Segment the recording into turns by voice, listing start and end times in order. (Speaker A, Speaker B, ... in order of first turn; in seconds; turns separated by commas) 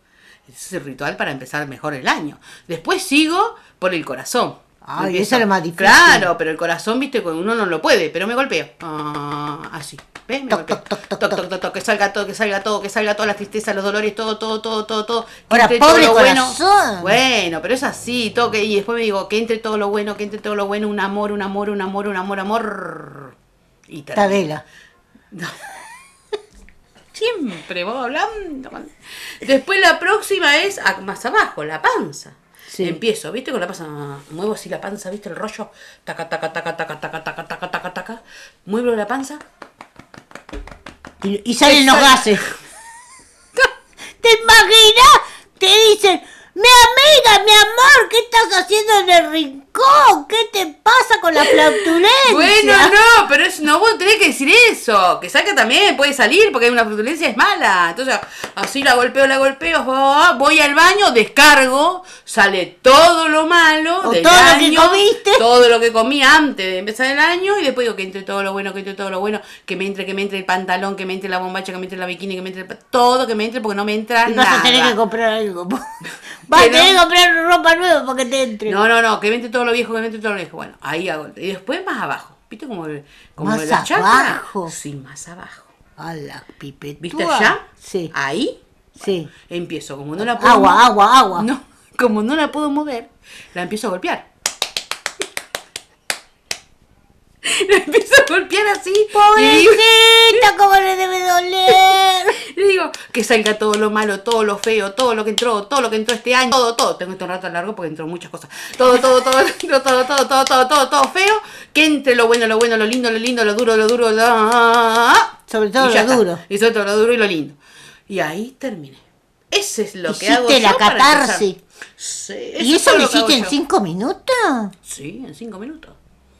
Speaker A: 0.5-23.3, Speaker B: 4.8-6.3, Speaker B: 10.5-11.4, Speaker B: 15.5-17.2, Speaker A: 23.9-24.4, Speaker B: 24.1-24.6, Speaker A: 25.3-25.6, Speaker A: 27.1-39.4, Speaker B: 32.7-33.0, Speaker B: 41.2-42.4, Speaker A: 41.6-42.5, Speaker B: 44.2-52.9, Speaker A: 51.4-75.0, Speaker B: 64.0-65.4, Speaker B: 74.2-75.8, Speaker B: 76.5-78.8, Speaker A: 76.5-77.0, Speaker A: 78.7-85.7, Speaker B: 83.4-84.7, Speaker B: 86.0-88.1, Speaker A: 87.0-87.6, Speaker A: 88.1-88.6, Speaker B: 89.0-89.3, Speaker A: 89.5-90.8, Speaker B: 90.2-91.5, Speaker A: 91.3-94.3, Speaker A: 97.4-100.4, Speaker B: 99.2-102.4, Speaker A: 101.7-117.6, Speaker B: 115.5-116.4, Speaker A: 118.1-123.5, Speaker B: 120.1-121.6, Speaker B: 122.6-124.7, Speaker A: 124.8-126.0